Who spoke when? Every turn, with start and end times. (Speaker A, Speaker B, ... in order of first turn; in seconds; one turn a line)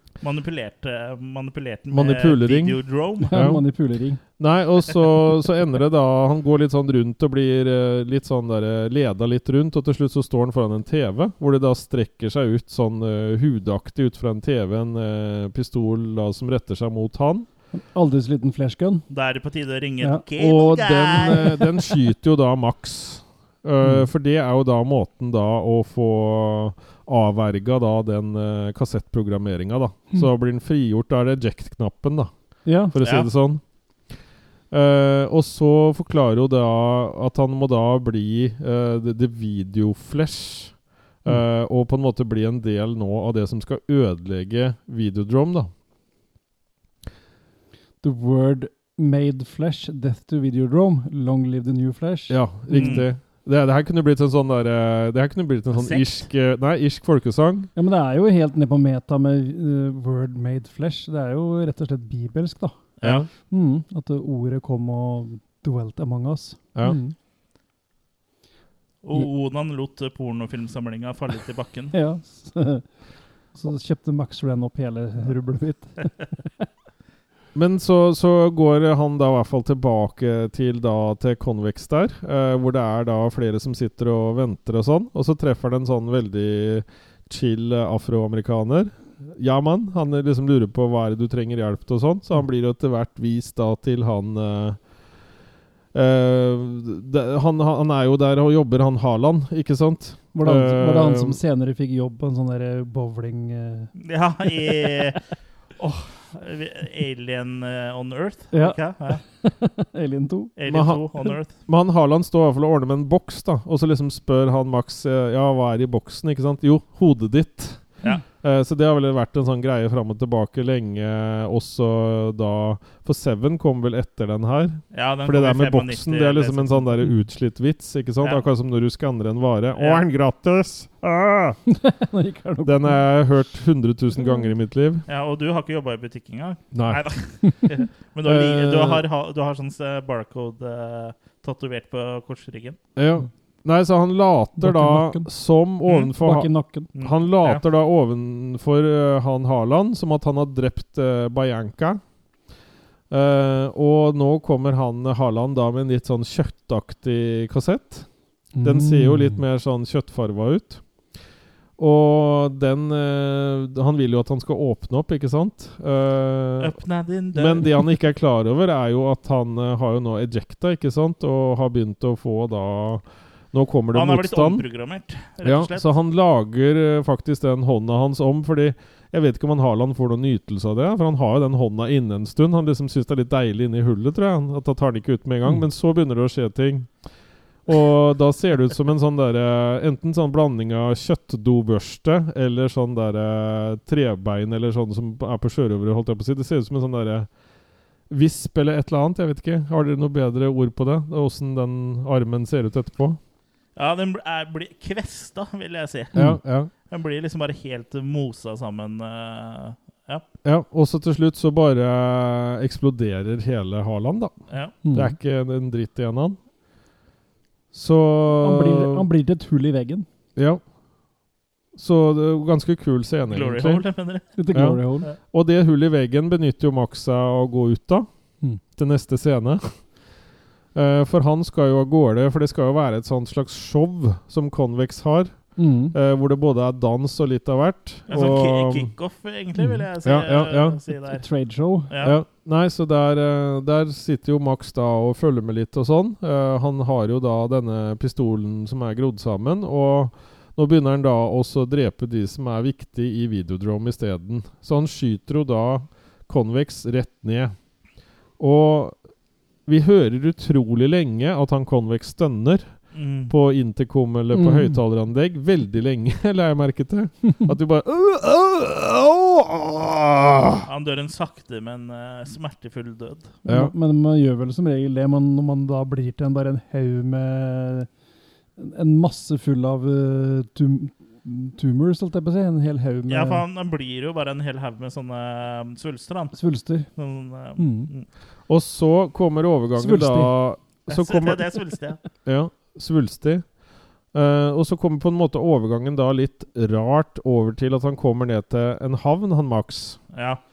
Speaker A: 0.2-3.4
Speaker B: 1.9-2.8
Speaker C: 3.2-4.2
Speaker B: 3.3-3.6
Speaker B: 4.4-17.5
Speaker C: 17.7-19.0
Speaker A: 19.1-21.6
Speaker B: 20.4-32.3
Speaker C: 23.8-24.1
Speaker C: 32.6-32.9
Speaker B: 32.9-33.6
Speaker A: 33.0-33.3
Speaker B: 34.7-45.7
Speaker C: 48.0-53.0
Speaker B: 52.3-57.7
Speaker A: 52.7-53.0
Speaker A: 55.7-56.2
Speaker C: 57.8-62.8
Speaker A: 63.0-63.3
Speaker B: 63.0-63.3
Speaker C: 63.5-67.1
Speaker A: 69.0-71.9
Speaker C: 71.9-72.8
Speaker C: 73.5-76.1
Speaker B: 77.5-94.8
Speaker B: 95.9-101.4
Speaker C: 100.3-103.9
Speaker A: 104.0-105.2
Speaker A: 105.8-109.2
Speaker C: 108.5-108.8
Speaker C: 109.3-110.5
Speaker A: 110.6-111.5
Speaker B: 110.7-111.0
Speaker B: 111.6-131.6
Speaker A: 124.9-126.9
Speaker A: 129.8-130.0
Speaker C: 131.7-133.0
Speaker B: 132.6-135.0
Speaker A: 135.1-142.8
Speaker B: 136.7-137.0
Speaker B: 138.2-139.0
Speaker B: 142.9-152.0
Speaker C: 144.6-145.3
Speaker A: 145.8-146.1
Speaker C: 146.2-146.9
Speaker A: 146.9-147.6
Speaker B: 153.1-158.1
Speaker C: 158.5-159.4
Speaker B: 158.6-160.8
Speaker B: 161.8-166.8
Speaker A: 166.6-167.8
Speaker B: 167.3-174.6
Speaker A: 173.9-175.9
Speaker B: 175.4-186.9
Speaker B: 187.7-197.3
Speaker B: 198.1-203.2
Speaker A: 203.8-206.2
Speaker C: 206.1-206.4
Speaker B: 206.1-206.7
Speaker A: 206.8-210.2
Speaker B: 210.4-214.3
Speaker A: 214.5-214.7
Speaker C: 214.8-215.2
Speaker B: 214.9-216.4
Speaker B: 217.7-219.1
Speaker C: 218.4-220.1
Speaker B: 220.3-220.6
Speaker B: 221.7-223.8
Speaker A: 223.3-224.3
Speaker C: 224.3-225.1
Speaker B: 224.5-228.1
Speaker B: 228.8-229.8
Speaker B: 230.7-238.9
Speaker C: 235.6-235.9
Speaker A: 238.1-241.2
Speaker C: 239.6-239.8
Speaker B: 240.0-240.8
Speaker C: 241.1-241.9
Speaker A: 241.9-242.2
Speaker B: 242.0-257.5
Speaker B: 258.4-259.0
Speaker B: 259.6-270.7
Speaker A: 262.9-263.3
Speaker C: 264.3-264.8
Speaker A: 270.6-273.3
Speaker C: 273.4-277.9
Speaker B: 273.4-273.7
Speaker C: 278.6-283.4
Speaker A: 283.1-286.4
Speaker C: 286.3-286.9
Speaker A: 286.9-288.1
Speaker C: 287.6-287.9
Speaker B: 288.5-291.4
Speaker C: 289.8-290.3
Speaker A: 290.9-292.0
Speaker B: 292.2-293.5
Speaker B: 294.1-300.0
Speaker A: 300.1-300.4